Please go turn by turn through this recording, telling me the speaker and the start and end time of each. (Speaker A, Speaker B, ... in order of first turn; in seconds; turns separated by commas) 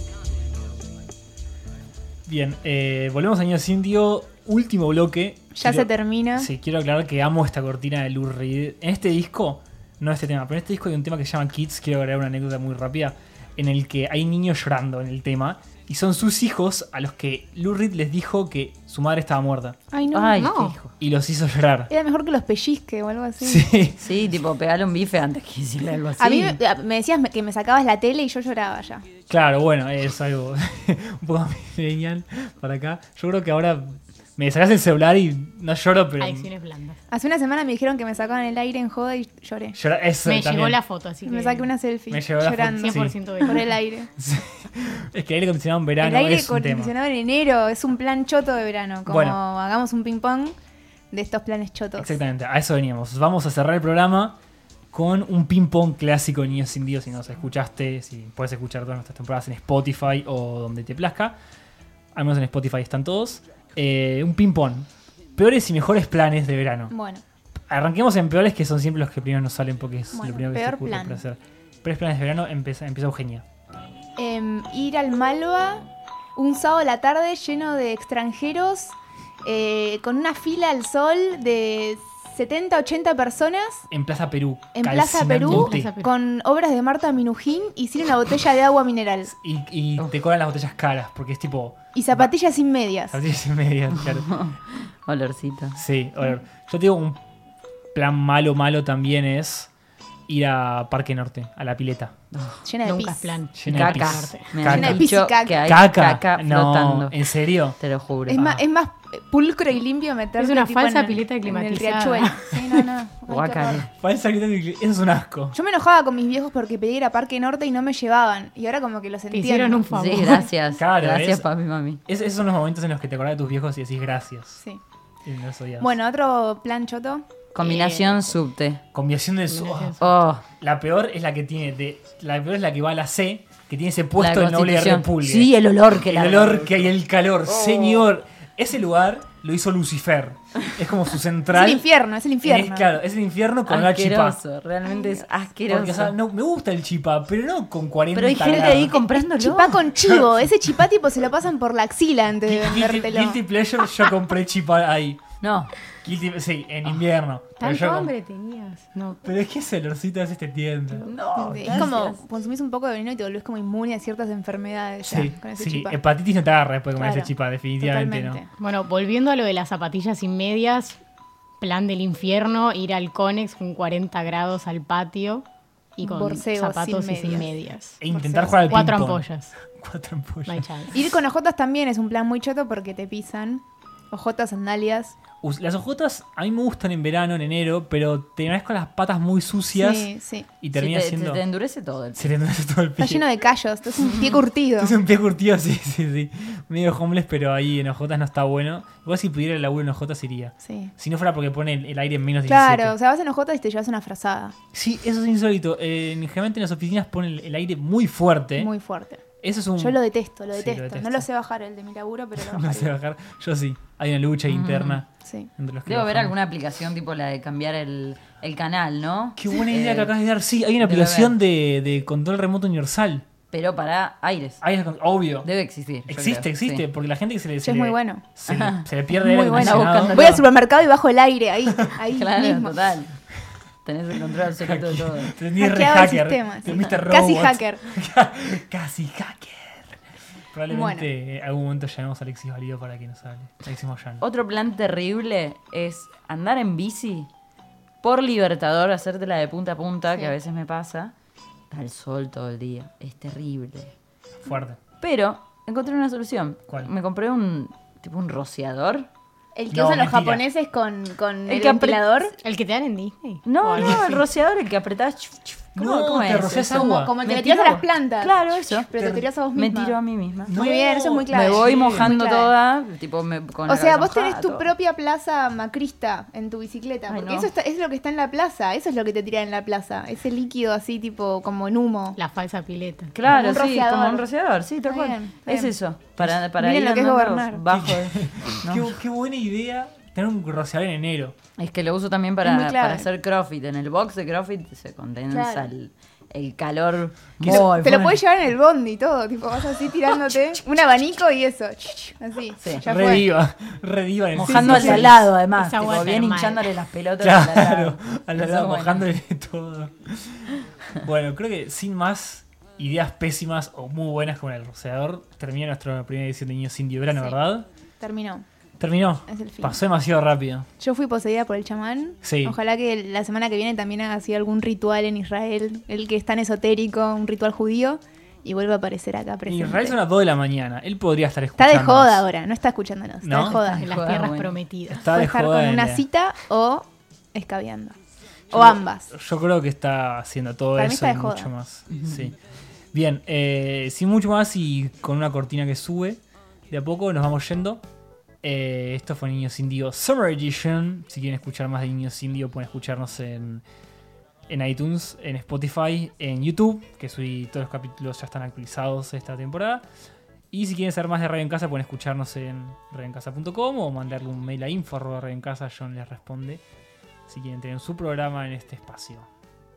Speaker A: 2.2-19.8, Speaker B: 5.5-6.5, Speaker B: 19.9-20.5, Speaker C: 20.1-20.9, Speaker D: 20.4-20.8, Speaker A: 21.0-21.9, Speaker B: 21.9-23.7, Speaker A: 23.4-24.0, Speaker C: 24.0-26.6, Speaker B: 26.2-29.0, Speaker A: 29.3-36.5, Speaker D: 36.2-37.0, Speaker B: 37.1-39.8, Speaker A: 39.7-40.8, Speaker D: 40.2-41.7, Speaker B: 41.2-44.1, Speaker A: 42.1-43.3, Speaker D: 42.7-43.8, Speaker A: 44.2-46.9, Speaker B: 46.0-50.6, Speaker A: 49.0-49.4, Speaker B: 51.1-52.1, Speaker A: 52.0-54.4, Speaker A: 54.9-61.4, Speaker A: 62.1-66.9, Speaker B: 66.9-67.2, Speaker A: 67.7-73.4, Speaker B: 70.1-71.2, Speaker B: 74.2-83.9, Speaker A: 83.9-85.9, Speaker B: 84.7-89.3, Speaker D: 85.5-86.1, Speaker A: 89.3-92.3, Speaker B: 91.9-93.2, Speaker A: 93.1-94.3, Speaker C: 94.0-95.8, Speaker A: 95.8-97.2, Speaker A: 97.9-99.7, Speaker A: 100.3-102.1, Speaker C: 102.3-102.6, Speaker B: 102.6-103.5, Speaker D: 102.8-104.6, Speaker A: 103.5-105.1, Speaker C: 103.6-107.2, Speaker B: 104.6-105.7, Speaker A: 105.6-107.8, Speaker C: 107.8-108.4, Speaker B: 108.3-113.9, Speaker A: 108.3-108.6, Speaker D: 110.4-112.8, Speaker C: 113.3-113.9, Speaker A: 113.9-115.6, Speaker B: 115.5-120.4, Speaker D: 119.3-120.5, Speaker C: 119.9-122.0, Speaker A: 120.7-121.5, Speaker A: 122.1-124.6, Speaker A: 125.2-125.9, Speaker B: 125.8-128.3, Speaker C: 127.5-128.8, Speaker A: 128.9-141.8, Speaker D: 129.5-130.0, Speaker C: 130.0-130.4, Speaker C: 134.2-136.9, Speaker B: 141.5-142.9, Speaker A: 142.4-144.4, Speaker C: 143.7-146.2, Speaker B: 144.8-145.3, Speaker A: 145.7-149.0, Speaker C: 148.1-149.8, Speaker B: 148.5-153.4, Speaker A: 150.0-150.4, Speaker A: 152.4-155.2, Speaker C: 155.4-155.7, Speaker A: 156.0-158.1, Speaker D: 157.6-159.2, Speaker A: 159.2-161.1, Speaker D: 160.9-161.9, Speaker C: 161.0-162.2, Speaker B: 161.4-166.0, Speaker A: 165.0-168.4, Speaker B: 167.0-168.5, Speaker D: 168.6-171.0, Speaker D: 171.6-175.4, Speaker D: 176.0-178.0, Speaker B: 176.0-178.9, Speaker A: 178.0-180.8, Speaker D: 178.7-179.6, Speaker D: 180.5-180.9, Speaker B: 180.9-185.2, Speaker A: 185.4-191.4, Speaker B: 189.7-190.5, Speaker C: 190.7-192.3, Speaker A: 192.1-193.2, Speaker B: 193.0-195.0, Speaker A: 194.8-202.9, Speaker B: 200.6-200.9, Speaker B: 202.5-204.6, Speaker A: 204.7-208.7, Speaker B: 208.6-209.2, Speaker A: 209.4-210.0, Speaker B: 209.8-212.9, Speaker A: 210.5-211.2, Speaker A: 212.3-215.1, Speaker C: 214.5-215.0, Speaker B: 215.2-215.5, Speaker A: 215.6-216.3, Speaker C: 215.8-220.1, Speaker A: 219.3-223.2, Speaker C: 220.8-221.3, Speaker C: 223.5-224.6, Speaker A: 224.6-225.5, Speaker C: 225.4-226.8, Speaker A: 226.1-230.4, Speaker B: 227.6-228.3, Speaker C: 228.5-230.2, Speaker B: 229.2-232.8, Speaker C: 232.1-233.2, Speaker C: 233.8-235.3, Speaker A: 234.6-240.0, Speaker B: 235.6-237.8, Speaker A: 240.5-244.2, Speaker B: 240.7-241.1, Speaker C: 244.2-247.3, Speaker C: 248.0-251.1, Speaker C: 251.7-253.9, Speaker A: 254.4-254.8, Speaker C: 255.0-259.1, Speaker B: 259.5-262.4, Speaker A: 259.7-260.4, Speaker C: 261.5-262.1, Speaker D: 262.4-264.3, Speaker C: 263.4-268.9, Speaker A: 265.8-267.8, Speaker B: 266.7-270.0, Speaker A: 268.9-269.2, Speaker C: 269.5-270.6, Speaker A: 270.5-272.1, Speaker B: 270.5-272.5, Speaker C: 271.3-274.7, Speaker B: 273.7-282.2, Speaker C: 277.1-277.5, Speaker D: 282.1-283.1, Speaker C: 283.1-289.0, Speaker B: 283.2-284.2, Speaker B: 284.9-285.8, Speaker B: 286.5-287.6, Speaker A: 287.7-291.4, Speaker C: 291.6-298.2, Speaker B: 292.4-293.1, Speaker B: 295.3-295.7, Speaker A: 297.4-298.1, Speaker B: 297.5-303.3, Speaker C: 302.6-302.9, Speaker A: 302.8-305.3, Speaker C: 304.4-309.1, Speaker D: 304.5-306.7, Speaker A: 307.2-317.7, Speaker B: 318.0-318.4, Speaker A: 318.8-320.7, Speaker B: 319.3-319.8, Speaker B: 320.8-330.0, Speaker A: 322.2-322.6, Speaker A: 329.4-332.2, Speaker B: 331.6-333.9, Speaker A: 333.2-333.6, Speaker D: 333.5-335.1, Speaker C: 333.6-334.6, Speaker A: 334.9-336.0, Speaker B: 335.0-337.9, Speaker B: 338.5-339.1, Speaker A: 338.5-342.3, Speaker B: 340.8-341.5, Speaker C: 341.9-342.3, Speaker A: 342.9-347.8, Speaker A: 348.4-353.6, Speaker A: 354.5-359.8, Speaker A: 360.5-366.6, Speaker A: 367.3-369.3